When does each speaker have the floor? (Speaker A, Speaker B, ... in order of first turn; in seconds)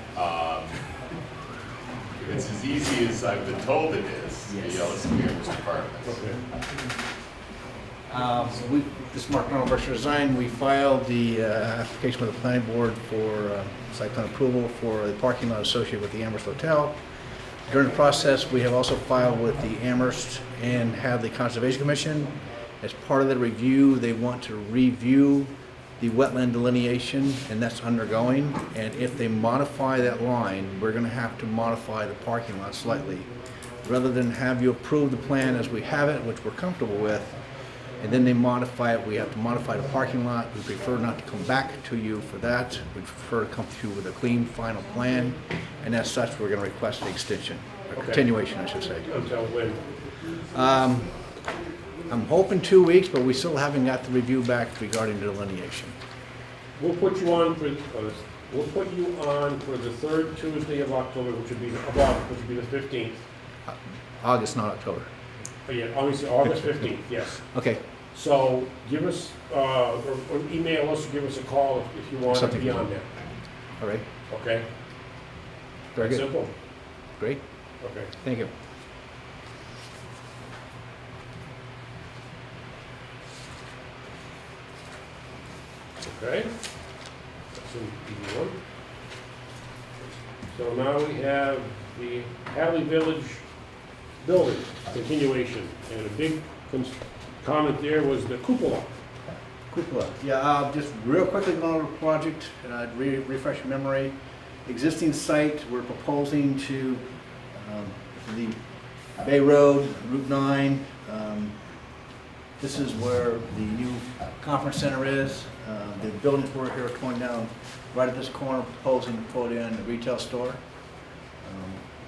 Speaker A: 0.1-0.8, 2.2-6.2
Speaker B: 4.5-5.0, 8.1-16.9, 17.7-33.3, 33.8-37.4, 38.0-49.0, 50.5-51.2, 52.1-55.9, 63.7-65.1, 67.4-67.8, 72.3-72.8, 75.9-76.4, 78.2-78.5, 99.7-104.1, 104.7-108.5, 109.2-111.5, 112.6-120.6, 121.4-121.8
Speaker C: 6.0-6.4, 47.9-48.3, 49.0-49.8, 56.8-63.2, 65.7-67.4, 68.1-73.1, 74.3-74.6, 76.0-76.5, 77.8-78.1, 86.0-86.5, 87.5-88.6, 90.5-93.4, 94.2-98.9